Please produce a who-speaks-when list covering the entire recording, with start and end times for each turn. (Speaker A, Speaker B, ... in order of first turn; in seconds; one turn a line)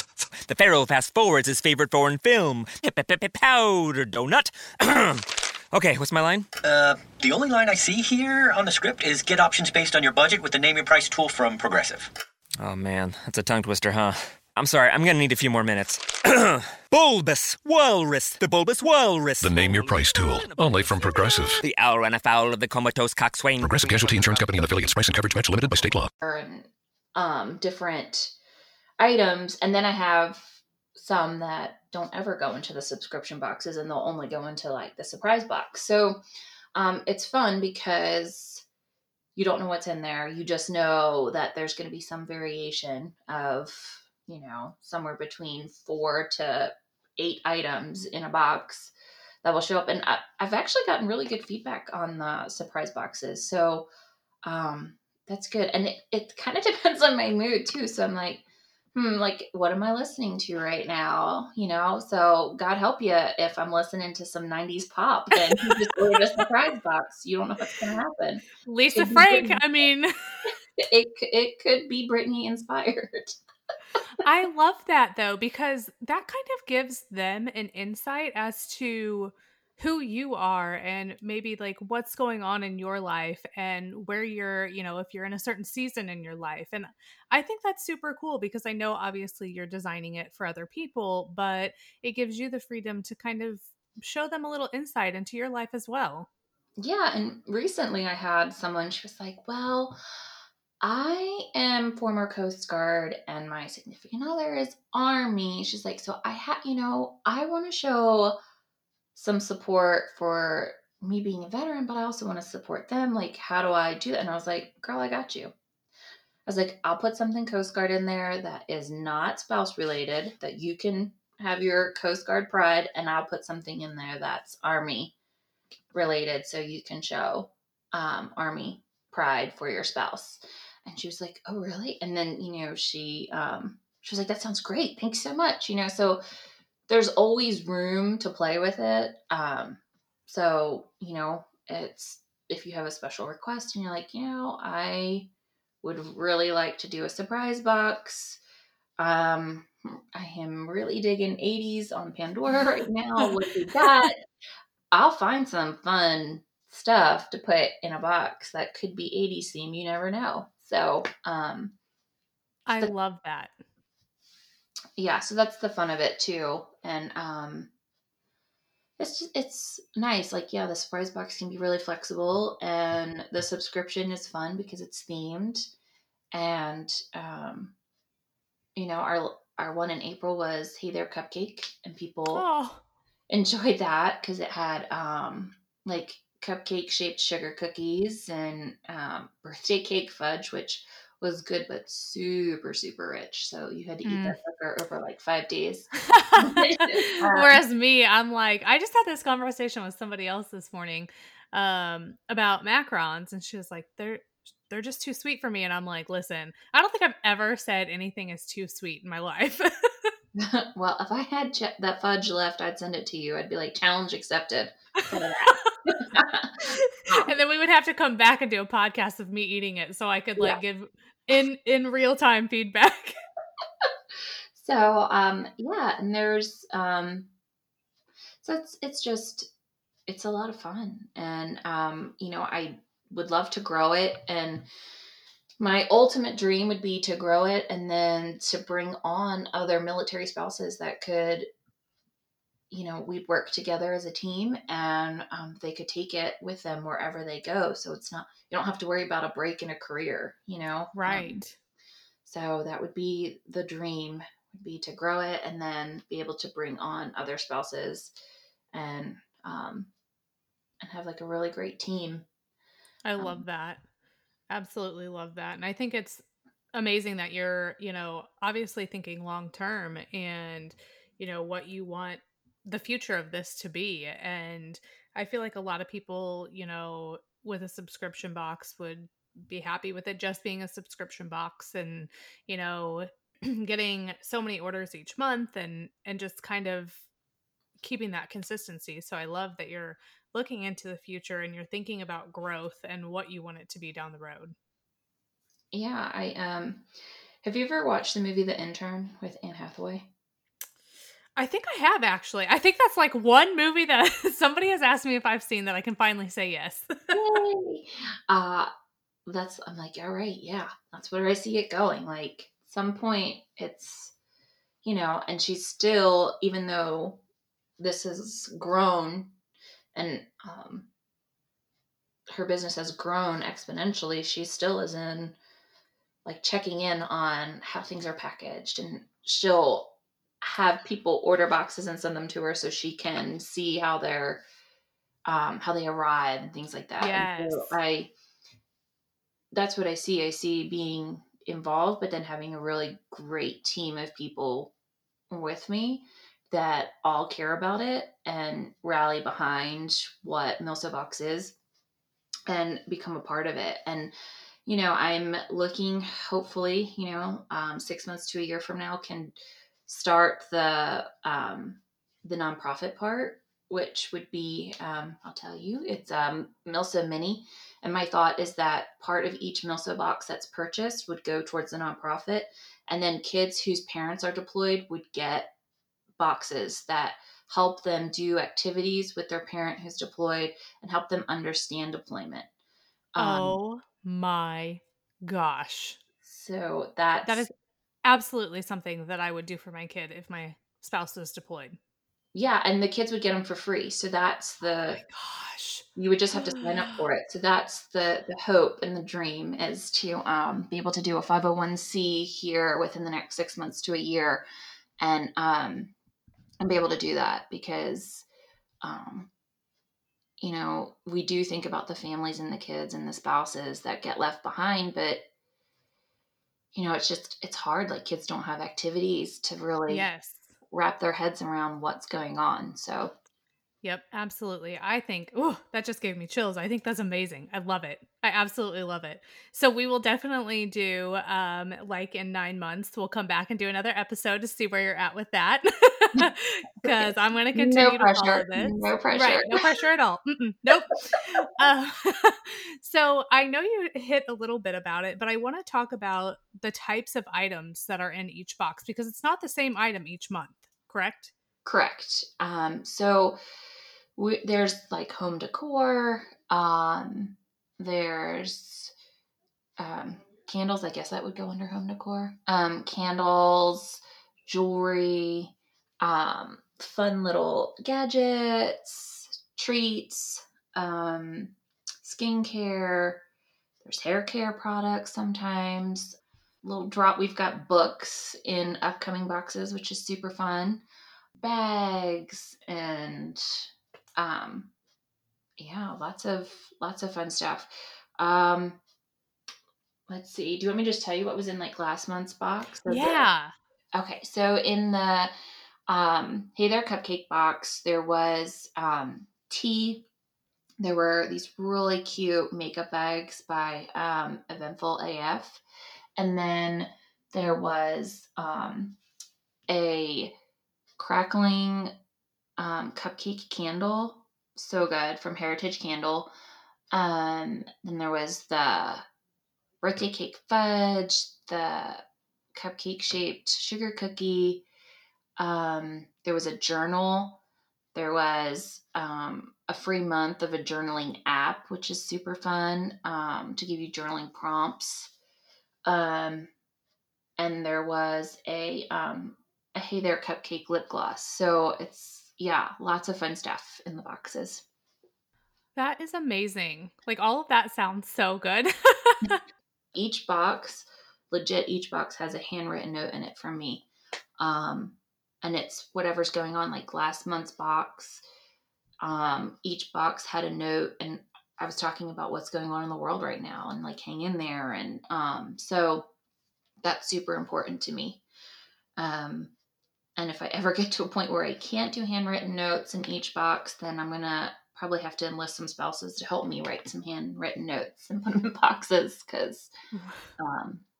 Speaker A: 0.4-6.5
Speaker B: 6.6-12.1
Speaker A: 12.6-24.9
Speaker C: 19.4-21.6
Speaker C: 23.6-26.1
Speaker D: 26.2-28.3
Speaker D: 29.0-36.2
Speaker D: 36.7-38.6
Speaker D: 39.3-53.9
Speaker D: 54.4-69.6
Speaker E: 65.3-65.7
Speaker E: 68.6-70.5
Speaker D: 70.8-73.4
Speaker E: 74.2-96.3
Speaker D: 96.8-100.0
Speaker D: 100.8-108.4
Speaker D: 109.1-115.5
Speaker D: 116.5-125.1
Speaker D: 125.9-136.2
Speaker D: 136.9-145.3
Speaker D: 145.8-148.4
Speaker D: 149.0-154.2
Speaker D: 154.9-161.8
Speaker E: 162.7-163.5
Speaker D: 164.9-167.7
Speaker D: 169.0-175.7
Speaker D: 176.3-177.7
Speaker D: 178.7-182.4
Speaker E: 182.3-182.8
Speaker D: 183.3-197.6
Speaker E: 194.0-194.4
Speaker E: 196.1-210.1
Speaker D: 210.3-217.3
Speaker E: 215.0-215.7
Speaker E: 216.7-223.2
Speaker D: 224.5-227.3
Speaker D: 228.4-229.5
Speaker D: 230.1-234.7
Speaker D: 235.6-241.5
Speaker D: 242.7-251.4
Speaker E: 250.9-251.5
Speaker D: 252.2-258.1
Speaker D: 258.7-259.9
Speaker D: 260.8-262.2
Speaker E: 263.0-263.8
Speaker D: 263.2-263.4
Speaker E: 264.5-266.2
Speaker E: 266.7-287.1
Speaker E: 287.8-294.5
Speaker D: 295.7-296.8
Speaker D: 297.4-300.1
Speaker E: 301.4-307.2
Speaker D: 307.1-308.7
Speaker D: 309.2-314.1
Speaker D: 314.8-317.2
Speaker D: 317.8-319.3
Speaker D: 319.9-320.9
Speaker D: 322.3-325.4
Speaker D: 326.2-334.4
Speaker D: 335.2-338.1
Speaker E: 337.0-337.7
Speaker D: 339.5-344.7
Speaker D: 345.3-351.6
Speaker D: 352.5-354.1
Speaker D: 354.6-375.5
Speaker D: 376.2-382.5
Speaker D: 383.1-383.6
Speaker E: 383.2-386.0
Speaker D: 386.2-387.5
Speaker E: 387.2-387.5
Speaker E: 388.0-391.8
Speaker D: 392.3-395.0
Speaker E: 394.9-397.0
Speaker D: 395.9-404.4
Speaker D: 405.0-405.9
Speaker D: 406.6-408.2
Speaker D: 408.8-409.3
Speaker D: 410.4-415.2
Speaker D: 416.7-420.1
Speaker E: 419.9-420.5
Speaker D: 420.7-423.1
Speaker E: 423.8-451.3
Speaker D: 437.5-439.6
Speaker D: 451.6-453.4
Speaker D: 454.1-458.9
Speaker D: 459.8-473.2
Speaker D: 473.8-484.7
Speaker D: 485.6-488.8
Speaker D: 490.1-493.2
Speaker E: 492.9-493.5
Speaker D: 493.9-495.3
Speaker D: 495.9-500.1
Speaker D: 500.8-505.6
Speaker D: 506.2-509.0
Speaker D: 509.7-510.4
Speaker D: 511.0-511.9
Speaker D: 512.6-516.3
Speaker D: 516.9-519.0
Speaker D: 519.8-524.6
Speaker D: 525.4-527.4
Speaker D: 527.9-535.1
Speaker D: 535.8-536.5
Speaker D: 537.4-544.6
Speaker E: 545.8-549.4
Speaker D: 549.9-553.9
Speaker D: 554.4-558.2
Speaker D: 559.0-566.1
Speaker D: 566.8-568.2
Speaker D: 569.0-569.5
Speaker D: 570.1-579.7
Speaker E: 579.9-580.3
Speaker D: 580.4-580.8